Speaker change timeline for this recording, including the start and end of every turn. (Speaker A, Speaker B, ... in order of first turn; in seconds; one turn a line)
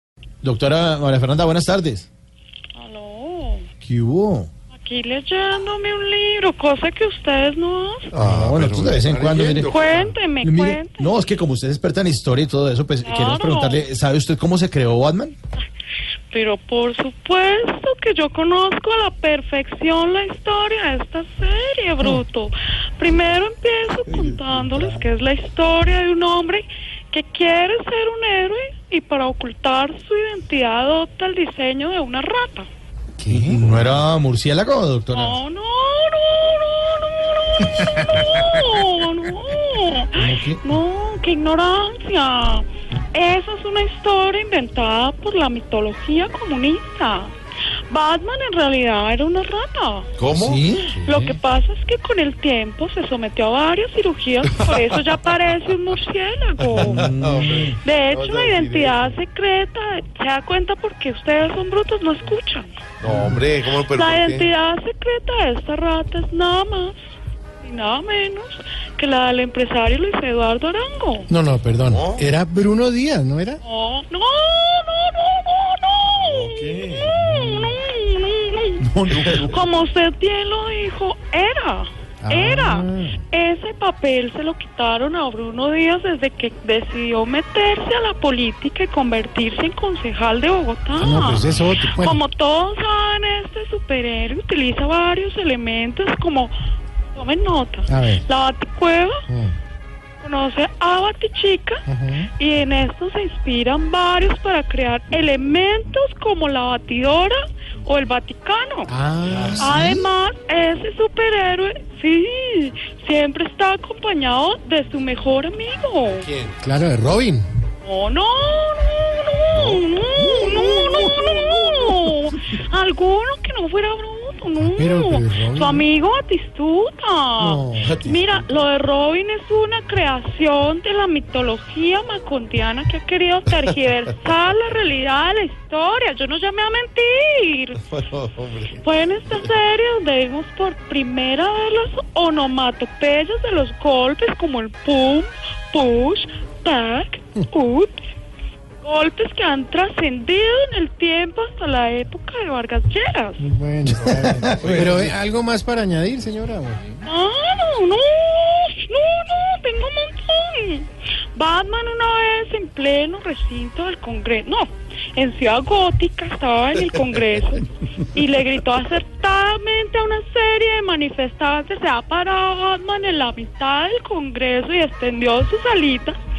Speaker A: 0.4-2.1
Speaker B: 2.7-3.7
Speaker A: 3.8-4.5
Speaker B: 4.7-8.1
Speaker C: 8.1-10.1
Speaker A: 8.2-9.7
Speaker B: 9.6-11.2
Speaker A: 10.4-15.3
Speaker B: 13.0-13.8
Speaker B: 16.3-32.7
Speaker D: 33.2-33.6
Speaker A: 33.3-35.4
Speaker B: 35.1-47.3
Speaker A: 40.2-40.6
Speaker B: 47.9-50.1
Speaker C: 50.2-50.7
Speaker A: 50.3-51.2
Speaker B: 51.0-57.0
Speaker C: 56.7-59.2
Speaker A: 56.9-57.8
Speaker B: 57.8-62.7
Speaker C: 63.0-64.5
Speaker B: 63.8-67.1
Speaker B: 67.6-71.3
Speaker D: 71.3-73.6
Speaker C: 71.8-72.3
Speaker B: 73.6-96.5
Speaker C: 76.1-77.4
Speaker A: 79.0-79.3
Speaker C: 79.1-79.5
Speaker D: 82.2-83.2
Speaker D: 91.0-92.2
Speaker B: 97.1-99.2
Speaker D: 97.9-98.2
Speaker B: 100.2-108.9
Speaker D: 101.9-102.2
Speaker D: 108.9-110.0
Speaker C: 109.3-109.6
Speaker B: 109.6-116.3
Speaker C: 116.3-116.5
Speaker D: 116.6-117.5
Speaker B: 117.8-137.8
Speaker C: 119.5-122.0
Speaker D: 124.6-125.8
Speaker D: 127.4-127.9
Speaker C: 127.8-128.5
Speaker C: 137.9-138.8
Speaker B: 138.8-148.1
Speaker B: 148.8-153.4
Speaker D: 153.4-156.8
Speaker A: 153.9-154.9
Speaker C: 154.6-155.1
Speaker B: 157.1-176.2